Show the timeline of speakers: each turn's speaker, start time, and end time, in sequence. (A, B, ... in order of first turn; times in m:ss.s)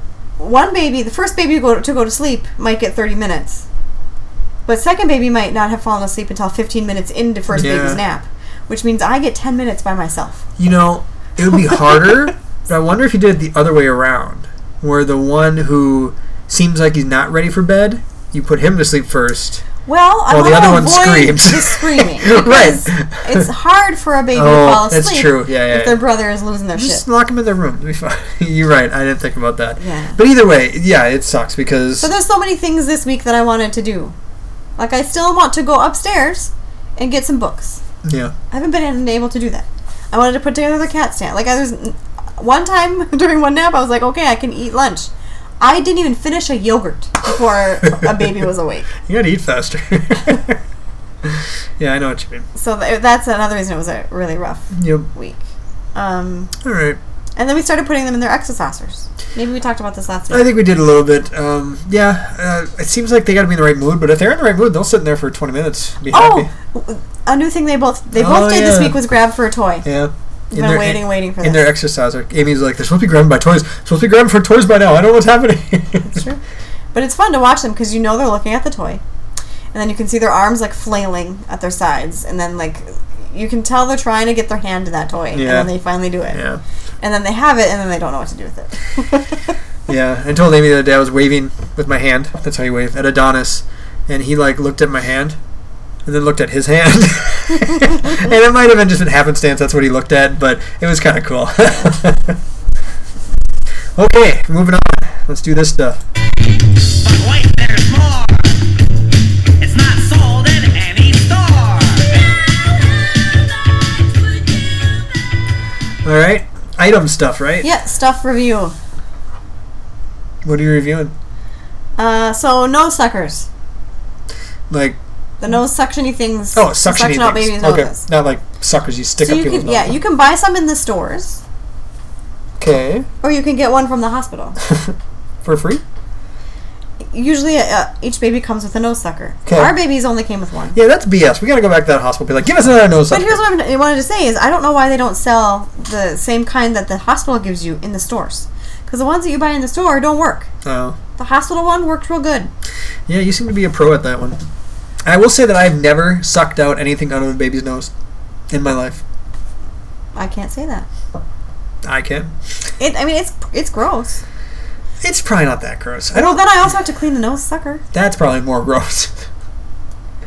0:00.4-0:03.7 A
0:04.7-0:10.5 A
0:07.5-0:08.0 B
0:10.6-0:19.6 B
0:11.6-0:12.2 A
0:19.9-0:27.0 A
0:20.3-0:23.5 B
0:24.3-0:26.0 B
0:26.8-0:32.1 B
0:29.8-0:30.2 A
0:32.0-0:34.2 A
0:34.8-0:37.8 A
0:38.0-0:38.4 B
0:38.5-0:48.9 A
0:49.0-0:50.6 B
0:51.2-0:52.5 B
0:52.6-0:55.4 A
0:54.7-0:55.1 B
0:56.0-0:56.5 A
0:56.6-0:57.0 B
0:57.4-1:00.5 A
1:00.3-1:06.5 B
1:06.1-1:09.8 A
1:08.2-1:09.0 B
1:09.8-1:16.2 B
1:10.5-1:11.7 A
1:16.0-1:16.4 A
1:16.9-1:19.0 A
1:19.7-1:26.4 A
1:25.3-1:25.7 B
1:26.3-1:26.6 B
1:27.0-1:29.4 A
1:29.9-1:35.4 B
1:36.0-1:42.4 B
1:44.0-1:46.0 B
1:46.9-1:48.6 C
1:49.6-1:52.2 C
1:56.0-1:57.7 B
1:57.6-1:58.8 A
2:00.4-2:01.1 B
2:02.0-2:03.5 A
2:04.7-2:05.0 B
2:05.4-2:08.1 A
2:06.6-2:10.0 B
2:09.2-2:11.4 A
2:12.6-2:13.1 B
2:13.2-2:14.6 A
2:14.6-2:15.8 B
2:17.1-2:20.8 A
2:19.5-2:19.7 B
2:20.8-2:23.4 B
2:23.1-2:30.5 A
2:30.6-2:31.0 B
2:31.2-2:32.5 A
2:33.1-2:34.4 B
2:35.0-2:37.9 B
2:38.5-2:39.0 B
2:40.2-2:40.9 A
2:41.8-2:42.3 B
2:42.8-2:44.2 A
2:45.0-2:46.4 B
2:46.1-2:47.8 A
2:47.9-2:49.3 B